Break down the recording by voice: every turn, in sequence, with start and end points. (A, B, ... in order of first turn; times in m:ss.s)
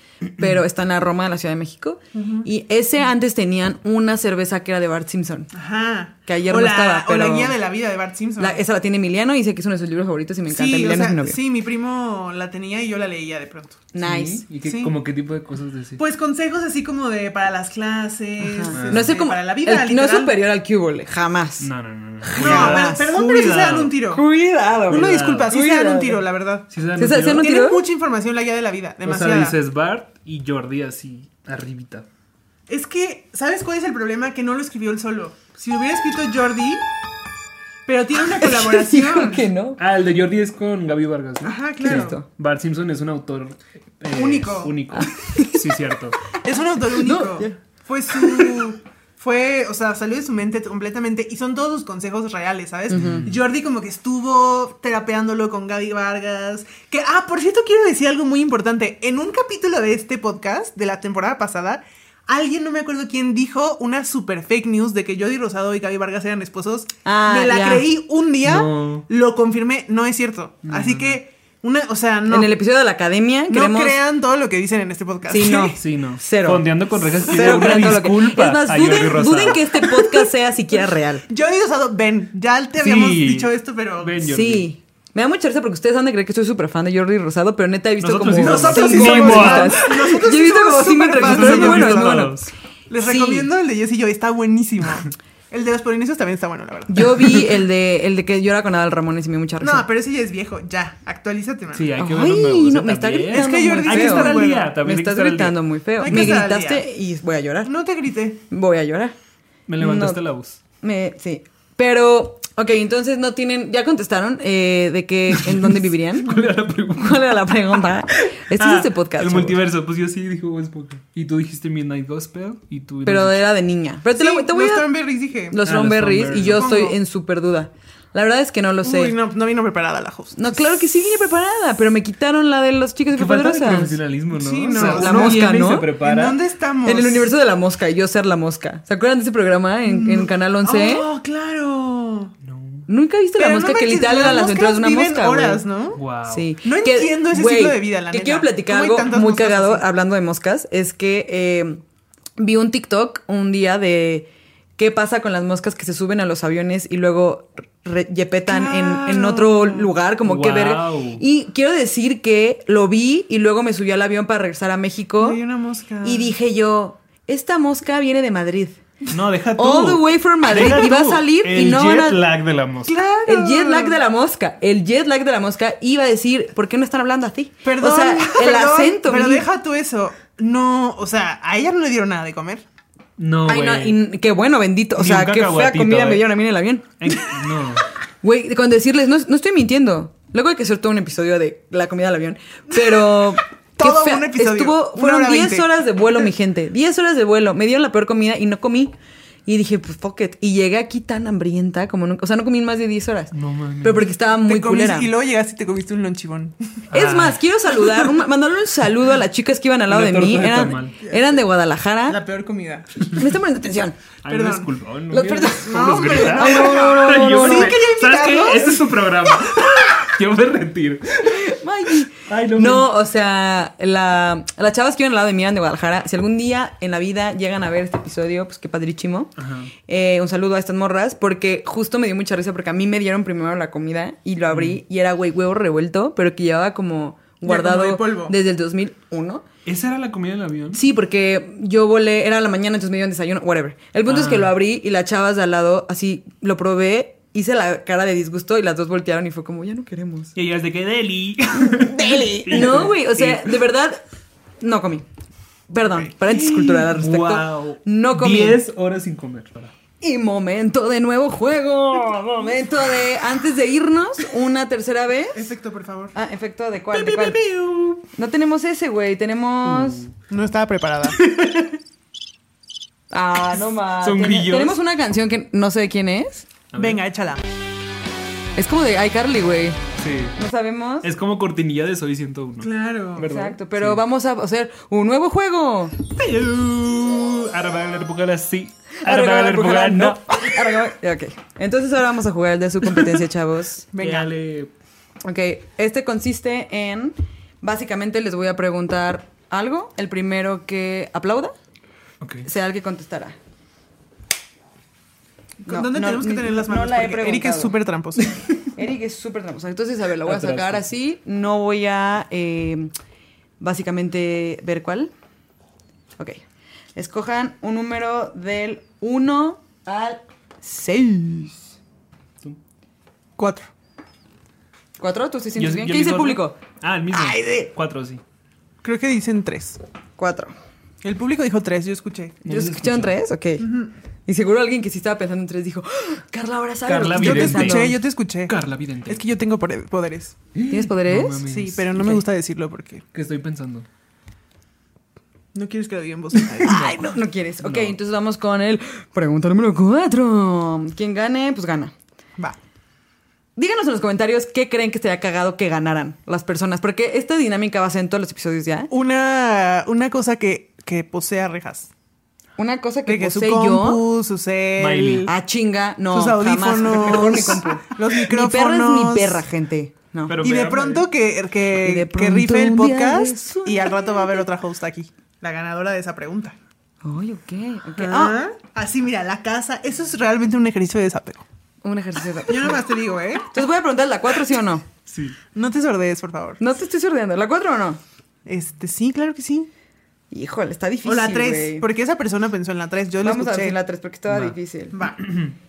0:00.4-0:05.5 A
0:02.1-0:02.5 B
0:05.5-0:08.6 B
0:06.2-0:07.5 A
0:08.4-0:11.4 A
0:10.5-0:13.9 B
0:13.9-0:14.4 A
0:14.0-0:16.0 C
0:14.6-0:14.9 B
0:16.0-0:20.3 B
0:18.4-0:21.7 A
0:18.7-0:19.1 C
0:21.6-0:23.9 C
0:22.2-0:23.1 A
0:22.4-0:24.2 B
0:24.1-0:26.2 A
0:24.9-0:26.7 B
0:24.9-0:25.5 C
0:26.7-0:27.5 C
0:27.0-0:27.8 A
0:27.3-0:29.6 B
0:29.0-0:32.1 C
0:32.7-0:36.8 B
0:37.8-0:39.5 B
0:38.4-0:39.8 A
0:39.8-0:46.2 C
0:41.4-0:42.2 B
0:41.8-0:42.2 A
0:44.1-0:44.9 B
0:44.9-0:45.6 A
0:46.4-1:12.5 B
0:47.0-0:47.6 A
0:48.1-0:48.6 A
0:52.9-0:53.3 A
0:52.9-0:53.4 C
1:07.0-1:07.8 A
1:08.4-1:09.0 C
1:10.6-1:11.2 C
1:12.3-1:14.0 A
1:13.5-1:15.8 B
1:15.3-1:21.2 A
1:15.8-1:19.7 C
1:17.3-1:17.9 B
1:21.3-1:24.2 B
1:22.8-1:24.7 C
1:24.2-1:32.4 A
1:28.0-1:29.8 C
1:28.3-1:32.3 B
1:31.2-1:32.5 C
1:32.9-1:37.5 B
1:33.0-1:33.5 A
1:36.9-1:39.9 A
1:39.6-1:41.9 B
1:41.7-1:45.6 C
1:42.0-1:47.7 A
1:43.3-1:44.7 B
1:46.0-1:46.8 B
1:47.6-1:48.4 B
1:48.5-1:49.1 A
1:49.7-1:50.6 C
1:49.8-1:50.2 A
1:50.8-1:56.4 A
1:55.3-1:57.5 C
1:57.0-1:59.6 A
1:58.3-2:03.4 C
2:03.0-2:04.9 A
2:04.1-2:05.6 B
2:05.5-2:09.2 A
2:05.6-2:06.7 C
2:06.5-2:07.0 B
2:08.8-2:10.6 B
2:10.3-2:14.0 A
2:13.1-2:16.4 C
2:14.3-2:17.3 B
2:14.7-2:15.9 A
2:16.8-2:21.0 A
2:19.8-2:22.3 B
2:22.4-2:22.8 C
2:22.9-2:25.6 A
2:23.4-2:26.0 B
2:25.9-2:26.5 C
2:26.3-2:31.8 A
2:26.6-2:29.8 B
2:32.4-2:45.4 A
2:38.5-2:39.9 B
2:40.2-2:41.2 C
2:45.2-2:46.3 B
2:46.0-2:48.8 A
2:49.1-2:53.0 C
2:49.5-2:52.2 A
2:52.9-2:54.0 B
2:53.2-2:59.5 A
2:57.6-3:02.6 B
3:03.2-3:04.0 C
3:03.5-3:06.9 A
3:05.0-3:06.3 C
3:07.0-3:07.8 C
3:08.2-3:18.9 A
3:12.7-3:16.3 B
3:19.4-3:25.1 A
3:23.3-3:24.0 C
3:24.4-3:26.8 B
3:26.9-3:27.4 C
3:26.9-3:32.2 A
3:29.9-3:31.0 C
3:32.1-3:33.0 B
3:33.1-3:34.0 A
3:34.2-3:41.5 C
3:34.2-3:34.7 B
3:35.1-3:37.8 A
3:35.6-3:39.0 B
3:41.2-3:49.3 A
3:42.2-3:42.9 C
3:49.4-3:49.7 C
3:49.9-3:59.4 A
3:54.5-3:54.8 C
3:57.4-3:58.3 B
3:59.6-4:00.8 C
4:00.7-4:10.3 A
4:04.1-4:04.5 C
4:10.3-4:13.6 C
4:11.5-4:14.0 A
4:14.6-4:15.0 A
4:15.7-4:18.6 A
4:15.8-4:16.1 B
4:16.2-4:19.7 C
4:20.0-4:25.5 A
4:25.3-4:26.2 B
4:26.1-4:27.4 A
4:26.9-4:28.0 B
4:28.1-4:30.0 A
4:29.6-4:30.1 C
4:30.3-4:31.2 B
4:31.2-4:31.8 C
4:33.1-4:36.5 A
4:34.0-4:34.8 C
4:36.7-4:37.0 C
4:36.8-4:37.4 B
4:38.6-4:39.8 A
4:40.0-4:40.4 C
4:40.3-4:41.1 A
4:41.0-4:44.0 C
4:42.6-4:43.3 B
4:43.2-4:46.0 A
4:46.1-4:50.8 C
4:49.0-4:53.9 A
4:52.8-4:53.2 C
4:53.9-4:54.3 B
4:54.0-4:54.7 C
4:55.2-5:01.5 A
5:02.2-5:02.5 C
5:02.4-5:03.4 A
5:05.6-5:08.3 B
5:05.7-5:07.7 A
5:08.6-5:12.9 A
5:10.2-5:10.8 C
5:13.6-5:15.1 A
5:16.9-5:21.6 A
5:23.4-5:23.7 B
5:25.0-5:26.6 A
5:25.6-5:28.2 C
5:27.1-5:27.7 A
5:28.8-5:29.8 B
5:30.2-5:30.5 A
5:31.0-5:32.4 B
5:32.4-5:33.2 C
5:32.4-5:33.7 A
5:33.6-5:33.9 B
5:34.3-5:38.0 A
5:36.8-5:39.2 C
5:37.2-5:38.6 B
5:39.1-5:40.4 B
5:40.5-5:41.9 C
5:40.7-5:42.2 A
5:41.4-5:43.0 B
5:43.1-5:43.9 C
5:45.5-5:46.8 B
5:46.5-5:47.0 C
5:46.6-5:51.9 A
5:47.6-5:48.0 C
5:53.6-5:58.9 A
5:58.9-6:01.9 B
6:02.6-6:04.0 A
6:03.1-6:05.3 B
6:04.8-6:05.3 C
6:05.2-6:10.4 A
6:06.1-6:09.4 B
6:10.3-6:11.1 C
6:10.4-6:16.6 B
6:11.7-6:14.4 A
6:17.0-6:18.4 A
6:18.0-6:21.4 B
6:21.8-6:22.8 A
6:22.4-6:23.5 B
6:23.5-6:24.8 A
6:25.1-6:25.4 C
6:25.5-6:26.6 B
6:26.6-6:28.0 A
6:28.4-6:29.7 B
6:30.3-6:31.8 A
6:31.0-6:33.8 B
6:33.2-6:35.1 A
6:34.3-6:34.6 C
6:34.9-6:35.2 B
6:35.2-6:35.5 C